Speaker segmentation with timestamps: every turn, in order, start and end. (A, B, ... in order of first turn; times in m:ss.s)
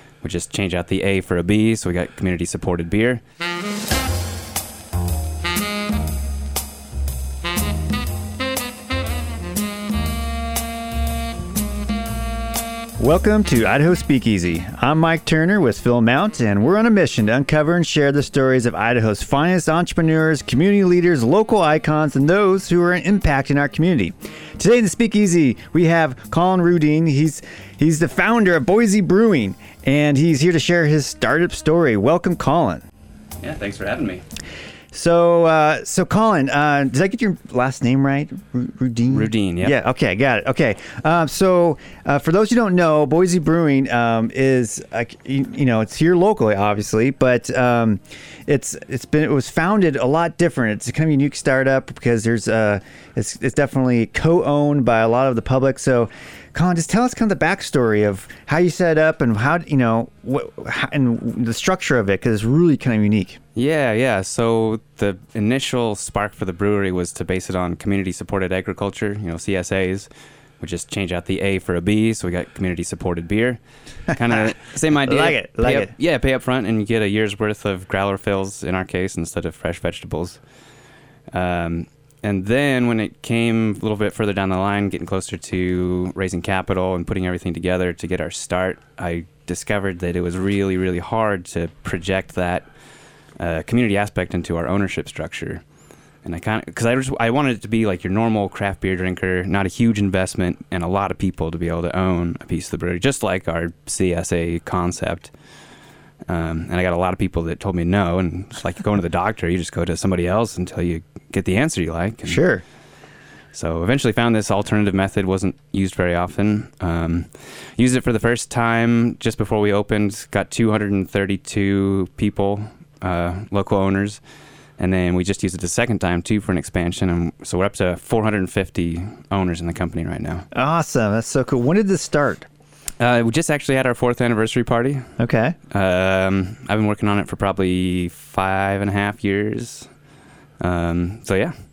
0:00.2-0:03.2 A
0:13.0-0:32.8 B
0:33.4-0:34.2 A
0:34.9-1:03.4 B
0:39.1-0:39.7 A
1:03.5-1:10.1 A
1:10.6-1:20.4 A
1:14.3-1:15.9 B
1:21.3-1:32.7 A
1:33.4-1:35.6 A
1:36.2-1:45.3 A
1:46.3-1:52.4 A
1:52.2-1:52.6 B
1:53.5-2:04.2 A
2:04.8-2:10.4 A
2:10.5-2:12.5 B
2:13.0-2:15.1 A
2:15.2-2:15.6 B
2:15.7-2:19.9 A
2:20.6-2:21.5 A